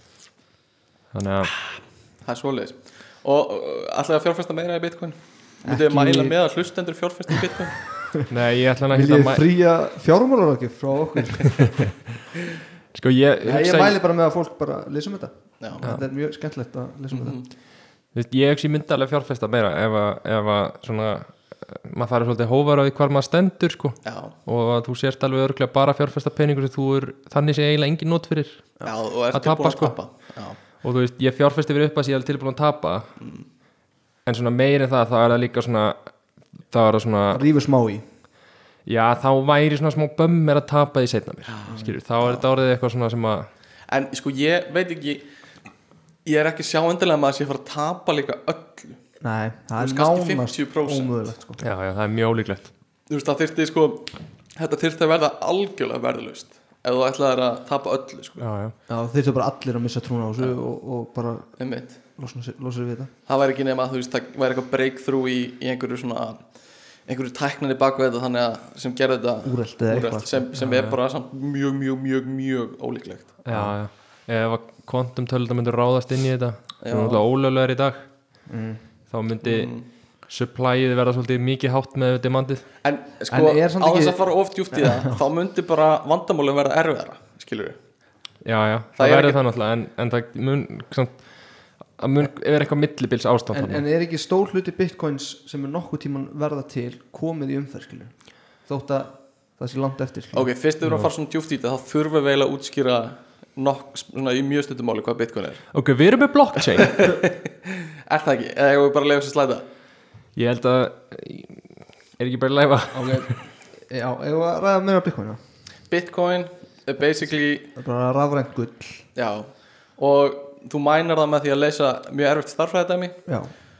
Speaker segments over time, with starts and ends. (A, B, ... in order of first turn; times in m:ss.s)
0:01.1-0:01.5 A
0:02.2-0:07.8 B
0:05.6-0:06.4 C
0:08.3-0:09.4 A
0:08.9-0:11.9 C
0:12.9-0:14.0 A
0:13.4-0:17.4 C
0:15.6-0:15.9 B
0:17.1-0:17.5 B
0:18.1-0:33.1 A
0:24.0-0:24.3 B
0:28.8-0:30.6 B
0:33.2-0:33.4 B
0:34.2-0:36.1 A
0:36.7-0:37.4 A
0:37.3-0:38.0 C
0:38.8-0:43.5 A
0:41.5-0:41.8 B
0:41.7-0:42.0 C
0:43.9-0:45.2 B
0:46.2-0:49.0 B
0:49.2-0:51.6 C
0:49.8-0:51.2 B
0:51.6-0:52.7 A
0:53.1-0:58.4 B
0:58.4-0:58.7 A
0:58.9-1:01.6 C
1:01.6-1:02.0 B
1:02.2-1:03.1 C
1:03.3-1:06.5 B
1:07.0-1:13.4 B
1:09.4-1:10.5 C
1:10.6-1:11.0 A
1:13.4-1:18.1 A
1:13.5-1:13.8 C
1:16.8-1:17.2 B
1:18.5-1:18.8 C
1:19.1-1:22.6 A
1:19.4-1:19.8 B
1:22.8-1:27.8 B
1:23.3-1:25.2 C
1:28.4-1:33.8 A
1:29.0-1:29.4 B
1:33.5-1:40.5 C
1:40.3-1:45.7 B
1:40.8-1:41.1 A
1:45.7-1:47.1 A
1:46.7-1:49.6 B
1:50.4-1:51.6 A
1:52.2-1:53.3 A
1:52.9-1:55.4 C
1:55.9-1:57.7 B
1:57.7-1:59.0 C
1:59.1-2:03.2 B
2:03.2-2:03.5 C